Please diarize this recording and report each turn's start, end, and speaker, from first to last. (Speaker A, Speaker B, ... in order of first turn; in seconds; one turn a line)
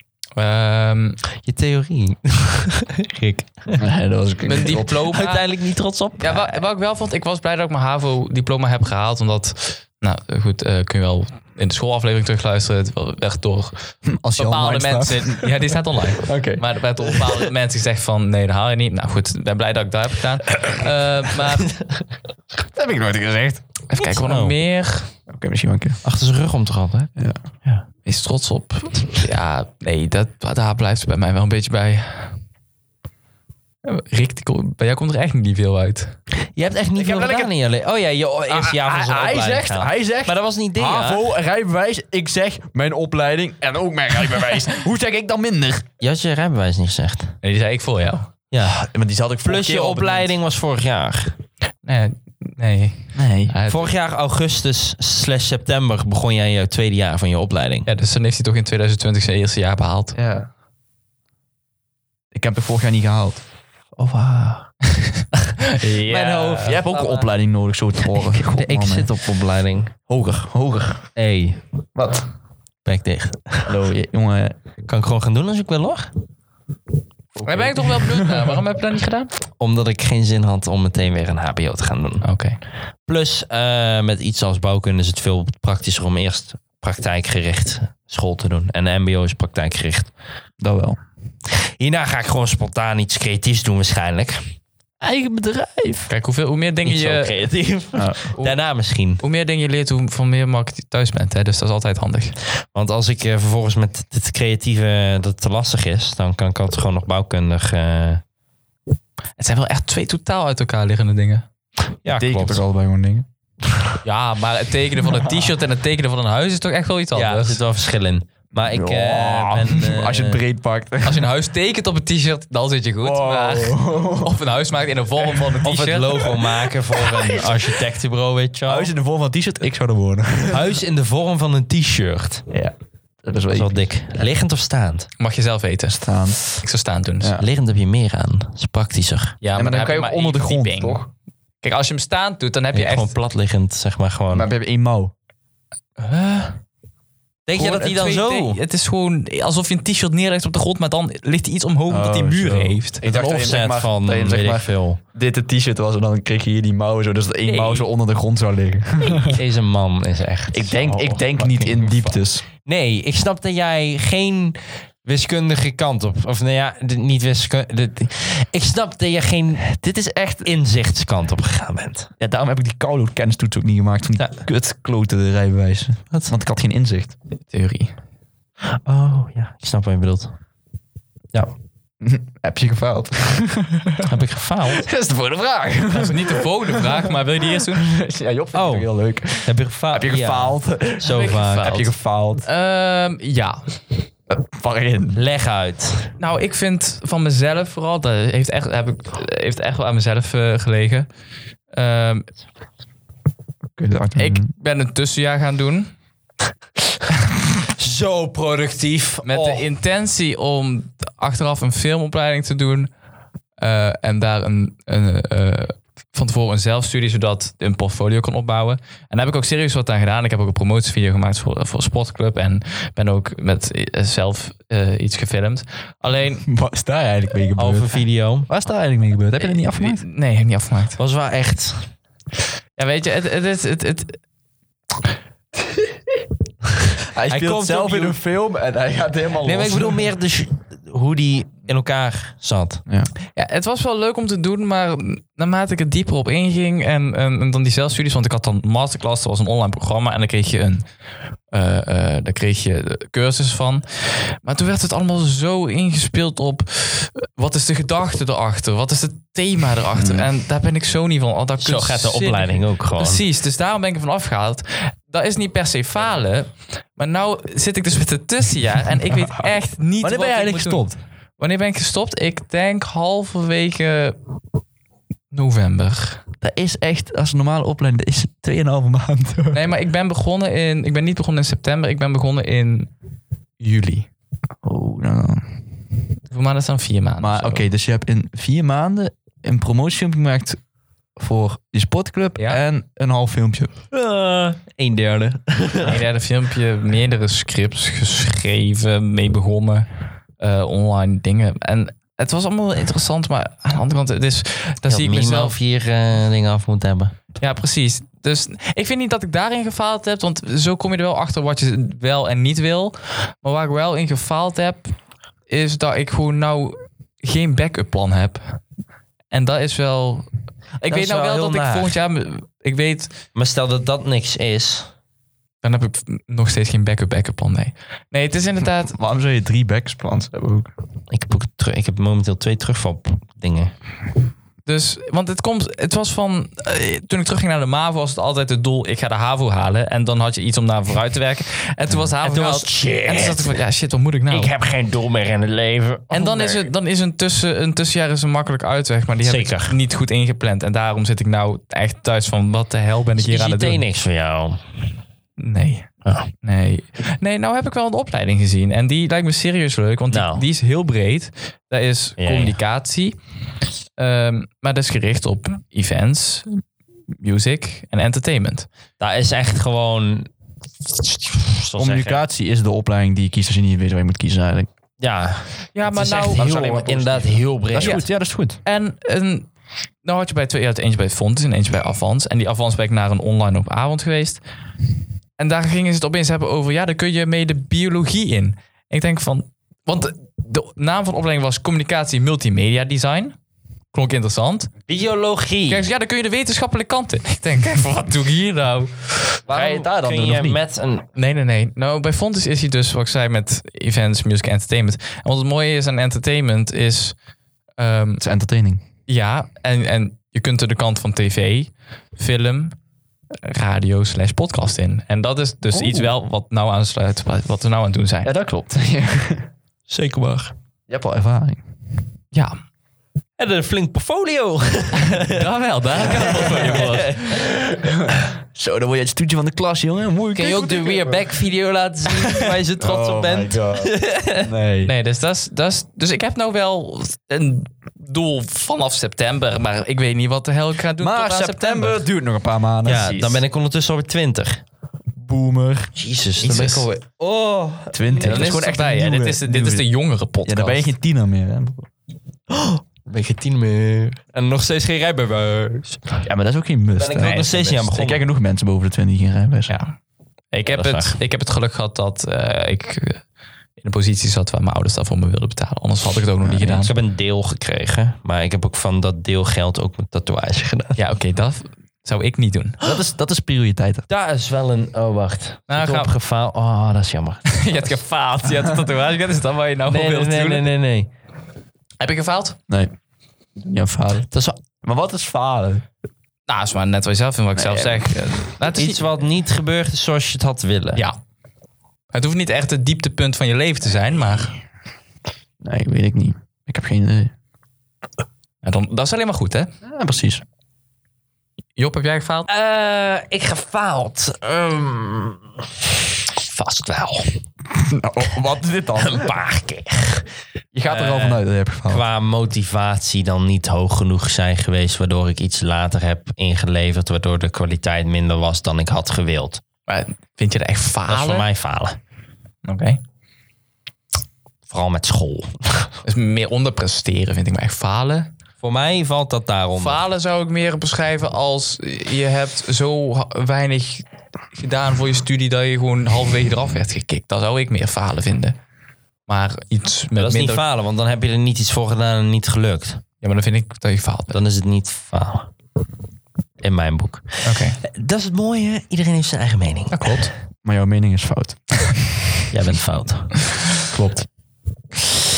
Speaker A: 0.4-1.2
Speaker B: 1.4-3.9
Speaker C: 3.8-5.1
Speaker A: 4.5-5.5
Speaker B: 5.1-6.6
Speaker A: 6.2-21.8
Speaker C: 14.1-15.6
Speaker C: 16.2-16.6
Speaker C: 22.7-23.6
Speaker A: 23.9-25.1
Speaker B: 24.1-24.6
Speaker C: 25.3-26.0
Speaker B: 26.0-27.1
Speaker A: 28.1-32.4
Speaker A: 33.9-36.2
Speaker B: 36.5-41.3
Speaker C: 37.0-37.5
Speaker C: 38.5-45.9
Speaker B: 46.0-47.4
Speaker A: 47.4-48.3
Speaker B: 48.5-48.8
Speaker C: 48.7-50.3
Speaker B: 49.5-51.4
Speaker A: 51.8-53.9
Speaker C: 53.1-53.5
Speaker B: 53.7-57.9
Speaker A: 57.9-60.2
Speaker C: 60.1-60.5
Speaker C: 62.3-63.4
Speaker B: 64.0-64.6
Speaker A: 65.6-66.9
Speaker B: 66.1-67.3
Speaker C: 66.1-69.1
Speaker B: 68.1-69.9
Speaker C: 70.1-71.1
Speaker B: 71.2-71.6
Speaker C: 72.0-72.3
Speaker B: 72.8-73.8
Speaker C: 73.7-74.6
Speaker B: 74.9-76.1
Speaker C: 77.4-78.6
Speaker A: 77.5-79.3
Speaker B: 79.6-82.3
Speaker A: 82.2-82.6
Speaker B: 83.1-90.1
Speaker C: 90.6-91.0
Speaker B: 91.8-94.5
Speaker C: 95.0-96.1
Speaker A: 96.1-97.4
Speaker B: 96.8-99.2
Speaker C: 97.9-98.3
Speaker A: 99.2-102.4
Speaker B: 102.7-108.2
Speaker A: 109.4-111.5
Speaker B: 112.0-112.6
Speaker C: 112.1-113.9
Speaker A: 114.0-117.6
Speaker C: 115.0-115.5
Speaker B: 117.1-120.4
Speaker C: 118.7-121.3
Speaker A: 121.0-126.3
Speaker C: 123.0-124.4
Speaker B: 125.6-128.9
Speaker C: 126.4-127.8
Speaker C: 128.7-130.8
Speaker B: 130.5-132.4
Speaker C: 132.5-133.9
Speaker B: 133.5-135.1
Speaker A: 135.2-137.3
Speaker C: 136.0-136.4
Speaker C: 137.2-137.4
Speaker B: 137.4-139.4
Speaker A: 139.4-141.0
Speaker C: 139.6-141.1
Speaker A: 141.6-143.1
Speaker B: 142.7-144.5
Speaker C: 144.3-145.1
Speaker A: 146.0-146.6
Speaker B: 147.5-148.6
Speaker A: 147.6-153.0
Speaker C: 151.9-159.4
Speaker B: 153.0-155.0
Speaker A: 157.5-157.9
Speaker B: 159.2-162.0
Speaker C: 160.5-162.4
Speaker B: 162.7-169.8
Speaker C: 169.8-170.5
Speaker B: 170.4-172.1
Speaker C: 172.2-177.2
Speaker A: 177.5-177.9
Speaker B: 178.7-180.3
Speaker C: 182.0-184.1
Speaker B: 184.0-184.9
Speaker C: 184.7-192.5
Speaker A: 185.9-187.9
Speaker B: 188.5-188.9
Speaker B: 189.4-191.8
Speaker A: 191.0-191.9
Speaker A: 192.4-193.7
Speaker C: 194.3-195.2
Speaker B: 195.2-196.2
Speaker A: 196.2-201.1
Speaker A: 201.7-202.3
Speaker C: 203.8-204.5
Speaker A: 204.2-205.9
Speaker B: 207.7-209.7
Speaker A: 209.2-212.9
Speaker A: 213.6-226.5
Speaker C: 226.5-230.0
Speaker B: 227.6-228.5
Speaker A: 229.4-231.0
Speaker B: 231.0-231.9
Speaker A: 232.8-234.2
Speaker C: 237.1-240.1
Speaker B: 237.3-238.2
Speaker B: 239.4-242.8
Speaker A: 243.3-250.9
Speaker A: 251.5-270.8
Speaker C: 260.0-260.3
Speaker B: 261.6-263.2
Speaker C: 270.0-271.0
Speaker A: 271.4-274.2
Speaker A: 275.3-276.2
Speaker C: 276.4-279.6
Speaker A: 279.5-282.9
Speaker A: 283.6-284.1
Speaker C: 284.6-285.6
Speaker A: 286.3-287.7
Speaker C: 287.2-290.6
Speaker C: 291.2-293.7
Speaker B: 293.9-296.0
Speaker A: 295.8-299.9
Speaker A: 300.4-305.6
Speaker B: 304.9-307.1
Speaker A: 307.4-314.9
Speaker A: 315.5-318.6
Speaker A: 319.3-320.3
Speaker A: 320.8-323.1
Speaker B: 320.9-322.0
Speaker B: 323.4-324.9
Speaker A: 325.6-329.0
Speaker C: 328.9-330.7
Speaker B: 331.1-333.7
Speaker A: 334.7-344.5
Speaker B: 342.2-343.6
Speaker B: 344.3-346.7
Speaker A: 346.1-353.8
Speaker B: 349.2-349.8
Speaker B: 353.2-354.6
Speaker A: 355.4-355.9
Speaker A: 356.4-363.2
Speaker B: 360.1-360.4
Speaker B: 362.2-362.6
Speaker A: 364.0-366.6
Speaker A: 367.2-368.7
Speaker B: 369.0-370.3
Speaker B: 370.9-372.2
Speaker C: 371.8-374.7
Speaker B: 375.0-378.0
Speaker A: 375.8-376.4
Speaker C: 376.4-378.6
Speaker A: 378.6-379.5
Speaker A: 380.0-384.4
Speaker A: 385.4-393.4
Speaker A: 393.9-394.7
Speaker B: 394.9-395.9
Speaker A: 395.7-399.4
Speaker B: 399.5-401.1
Speaker C: 399.5-400.6
Speaker A: 401.1-407.1
Speaker A: 407.8-408.2
Speaker C: 408.2-408.8
Speaker A: 409.1-412.8
Speaker A: 413.4-418.4
Speaker C: 415.7-416.1
Speaker C: 418.2-419.5
Speaker B: 419.9-420.5
Speaker C: 420.9-421.6
Speaker B: 423.4-425.5
Speaker A: 425.0-427.3
Speaker B: 426.0-427.6
Speaker C: 426.4-426.8
Speaker C: 427.4-431.3
Speaker B: 430.4-434.5
Speaker C: 432.1-434.9
Speaker A: 434.9-442.1
Speaker C: 441.0-443.4
Speaker B: 442.9-444.6
Speaker C: 445.2-446.9
Speaker B: 446.0-448.6
Speaker C: 447.9-449.9
Speaker A: 448.2-450.9
Speaker C: 450.4-451.9
Speaker B: 452.5-456.2
Speaker C: 456.2-459.7
Speaker B: 457.0-458.2
Speaker A: 459.7-459.9
Speaker A: 460.5-463.2
Speaker B: 460.7-461.2
Speaker A: 463.8-466.9
Speaker C: 466.4-466.8
Speaker B: 466.8-471.0
Speaker A: 471.0-472.8
Speaker C: 472.8-474.1
Speaker B: 474.1-478.0
Speaker A: 475.7-476.1
Speaker A: 477.5-480.7
Speaker B: 479.9-481.1
Speaker A: 482.0-482.6
Speaker C: 483.6-484.3
Speaker B: 484.3-484.6
Speaker C: 484.8-485.9
Speaker A: 486.5-489.0
Speaker C: 487.6-488.5
Speaker B: 488.7-491.0
Speaker A: 492.1-494.6
Speaker C: 495.6-497.3
Speaker A: 498.6-499.7
Speaker C: 499.8-500.4
Speaker A: 501.8-502.5
Speaker B: 502.5-505.4
Speaker B: 506.3-507.2
Speaker C: 507.7-509.3
Speaker B: 509.0-510.3
Speaker C: 510.7-512.0
Speaker B: 510.9-519.6
Speaker A: 519.9-521.5
Speaker B: 521.1-522.0
Speaker A: 522.6-523.0
Speaker B: 524.7-525.9
Speaker A: 526.0-528.3
Speaker B: 528.6-530.0
Speaker A: 529.8-538.6
Speaker A: 539.3-540.6
Speaker B: 540.2-543.0
Speaker A: 543.2-544.4
Speaker B: 544.3-545.5
Speaker B: 546.6-550.2
Speaker A: 547.4-547.8
Speaker A: 549.9-550.3
Speaker C: 550.6-552.4
Speaker B: 552.5-553.5
Speaker C: 553.9-554.2